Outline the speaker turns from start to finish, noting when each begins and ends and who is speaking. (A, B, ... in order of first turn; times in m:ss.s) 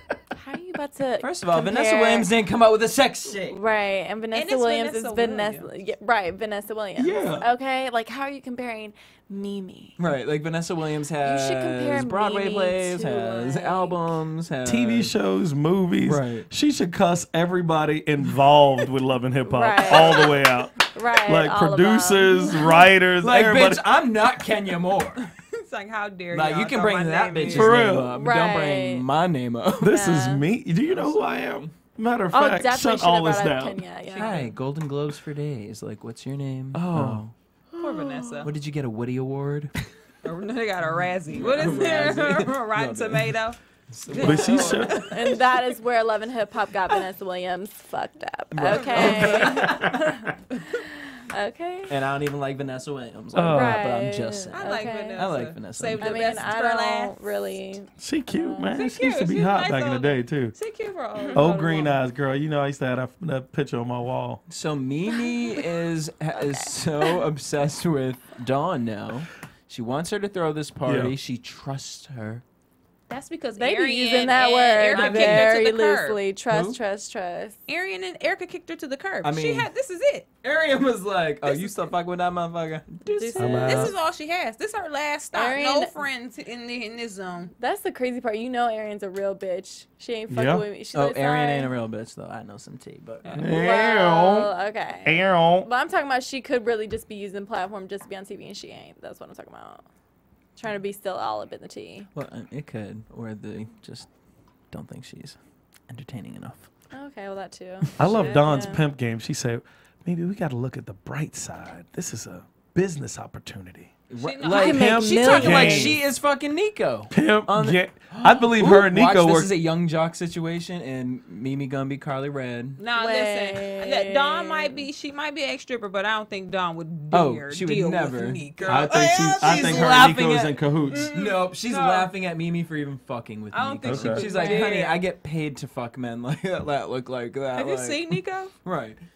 0:00.4-0:02.3 A
0:01.2-0:03.6 B
0:03.5-0:10.0 A
0:04.3-0:05.7 C
0:07.0-0:07.5 D
0:10.0-0:15.1 B
0:11.2-0:14.0 A
0:14.6-0:23.8 D
0:16.0-0:16.5 B
0:19.4-0:22.9 A
0:23.2-0:25.2 B
0:25.5-0:27.8 C
0:26.3-0:30.0 B
0:27.5-0:28.1 D
0:28.1-0:29.1 A
0:29.8-0:33.8 D
0:29.8-0:30.4 A
0:30.9-0:31.7 B
0:32.3-0:34.5 A
0:34.1-0:34.5 C
0:34.2-0:37.3 B
0:36.7-0:38.5 D
0:37.8-0:38.5 C
0:38.4-0:39.8 B
0:40.2-0:45.4 C
0:41.3-0:43.4 B
0:43.9-0:44.9 B
0:44.2-0:45.0 D
0:44.2-0:51.9 A
0:48.5-0:49.7 B
0:48.7-0:49.7 C
0:49.0-0:50.0 D
0:51.9-0:56.5 B
0:53.3-0:53.9 D
0:53.4-0:55.2 A
0:54.5-0:57.3 C
0:56.0-0:58.8 A
0:58.0-1:00.6 D
0:58.7-1:02.0 C
1:01.3-1:04.4 D
1:04.5-1:12.4 B
1:05.2-1:05.6 A
1:06.3-1:07.2 A
1:10.8-1:11.2 D
1:13.1-1:16.2 C
1:13.6-1:17.6 A
1:14.9-1:15.5 B
1:16.5-1:16.8 B
1:17.7-1:20.3 C
1:19.2-1:19.7 B
1:20.4-1:23.9 B
1:21.4-1:21.9 C
1:23.1-1:24.0 A
1:23.4-1:24.0 D
1:23.6-1:27.5 C
1:25.3-1:25.9 A
1:27.6-1:31.7 A
1:30.3-1:30.6 D
1:30.9-1:33.3 B
1:33.2-1:33.5 C
1:33.3-1:34.5 D
1:33.5-1:39.9 A
1:35.0-1:35.7 D
1:40.6-1:42.1 A
1:42.1-1:44.1 B
1:44.7-1:46.7 B
1:46.9-1:48.8 A
1:48.0-1:54.0 D
1:48.0-1:48.3 B
1:54.1-2:02.8 B
1:54.2-1:55.8 C
1:54.5-1:56.0 A
1:54.6-1:56.0 D
1:57.1-1:59.5 D
2:02.8-2:12.1 C
2:02.9-2:04.9 A
2:07.1-2:10.6 B
2:08.7-2:11.1 D
2:11.1-2:19.0 B
2:13.5-2:15.0 C
2:13.8-2:14.2 D
2:14.2-2:14.8 A
2:17.6-2:18.5 C